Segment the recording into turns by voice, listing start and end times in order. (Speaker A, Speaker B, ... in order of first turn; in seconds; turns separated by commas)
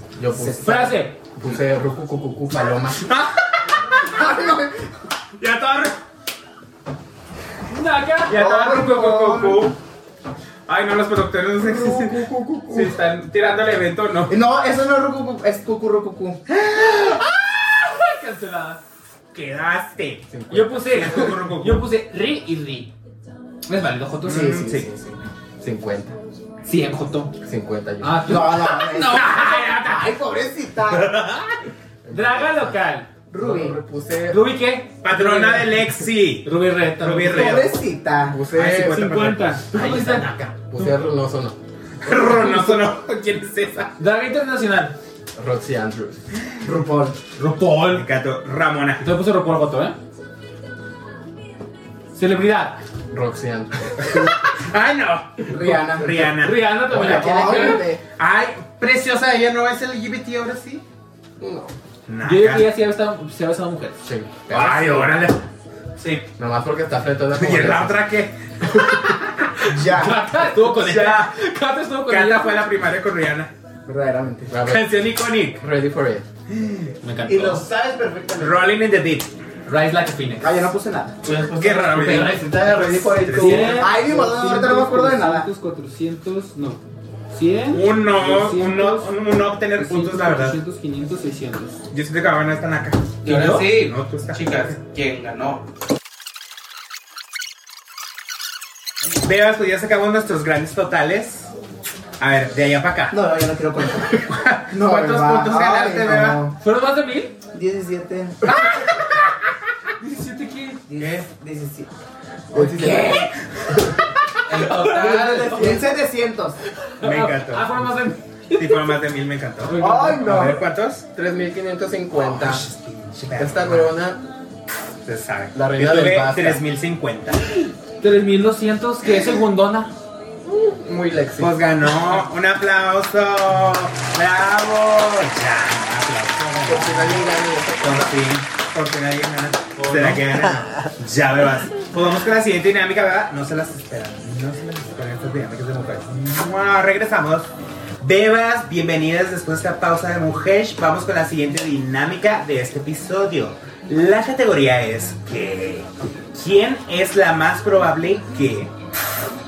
Speaker A: 0.2-3.1, Speaker B: 0.3-0.9, Speaker C: 0.6-1.2, Speaker B: 3.9-4.9, Speaker D: 5.4-6.0, Speaker C: 7.7-9.1, Speaker D: 8.3-9.8, Speaker B: 8.3-9.7, Speaker D: 10.7-14.3, Speaker A: 11.6-12.9, Speaker B: 14.3-16.4, Speaker D: 16.7-17.2, Speaker C: 16.8-18.8, Speaker D: 19.3-21.9, Speaker A: 20.3-21.2, Speaker C: 20.5-22.9, Speaker C: 23.7-24.6, Speaker B: 24.2-25.2, Speaker D: 24.3-24.9, Speaker A: 25.6-26.2, Speaker C: 26.6-27.3, Speaker A: 27.4-28.4, Speaker C: 28.0-30.1, Speaker B: 28.3-31.2, Speaker D: 30.9-31.5, Speaker A: 32.0-32.8, Speaker C: 32.1-33.1, Speaker B: 33.3-33.8, Speaker A: 33.4-34.4, Speaker C: 34.3-35.9, Speaker D: 35.0-37.8, Speaker C: 36.5-37.7, Speaker B: 37.3-38.4, Speaker A: 38.3-41.6, Speaker D: 38.5-39.6, Speaker C: 38.7-40.9, Speaker D: 42.0-44.0, Speaker C: 44.0-45.0, Speaker A: 45.4-46.2, Speaker B: 46.6-47.2, Speaker C: 47.4-48.0, Speaker D: 47.9-49.1, Speaker C: 49.0-50.0, Speaker C: 52.1-52.8, Speaker A: 53.1-54.3, Speaker D: 54.6-56.8, Speaker B: 55.5-56.3, Speaker C: 56.3-57.8, Speaker A: 56.9-58.0, Speaker B: 56.9-57.9, Speaker D: 58.2-60.8, Speaker A: 61.4-61.7, Speaker D: 62.1-62.7, Speaker C: 62.2-64.0, Speaker A: 64.0-65.1, Speaker D: 64.5-65.4, Speaker A: 66.4-68.0, Speaker D: 67.3-69.2, Speaker B: 69.7-70.3, Speaker C: 69.8-72.6, Speaker D: 70.6-71.4, Speaker D: 72.1-73.5, Speaker B: 73.9-74.5, Speaker A: 74.5-76.3, Speaker D: 74.6-75.6, Speaker D: 76.5-77.0, Speaker C: 77.0-77.7, Speaker B: 77.3-78.7, Speaker D: 78.4-79.3, Speaker C: 79.7-80.5, Speaker B: 80.4-81.2, Speaker C: 81.3-89.1, Speaker E: 81.5-82.4, Speaker D: 81.5-84.0, Speaker B: 82.6-85.5, Speaker D: 87.7-90.6, Speaker C: 89.8-91.8, Speaker D: 91.9-94.8, Speaker E: 93.2-95.6, Speaker C: 93.3-93.6, Speaker D: 99.2-101.5, Speaker D: 102.2-103.2, Speaker B: 103.1-106.6, Speaker D: 104.1-106.4, Speaker C: 106.6-107.4, Speaker B: 107.5-108.7, Speaker C: 110.0-110.9, Speaker B: 110.9-111.9, Speaker B: 112.5-113.3, Speaker A: 112.5-113.3, Speaker C: 112.8-113.1, Speaker C: 114.5-115.9, Speaker E: 114.5-115.5, Speaker B: 114.6-116.6, Speaker C: 116.8-119.0, Speaker D: 117.0-117.8, Speaker D: 118.5-121.0, Speaker C: 119.7-120.4, Speaker B: 119.8-120.6, Speaker A: 121.1-122.7, Speaker D: 122.2-124.0, Speaker A: 123.4-124.2, Speaker D: 125.0-127.4, Speaker A: 125.5-126.6, Speaker C: 128.0-129.9, Speaker A: 130.4-131.6, Speaker D: 131.4-137.2, Speaker A: 136.6-138.1, Speaker D: 137.8-147.5, Speaker C: 139.8-140.3, Speaker D: 148.0-158.7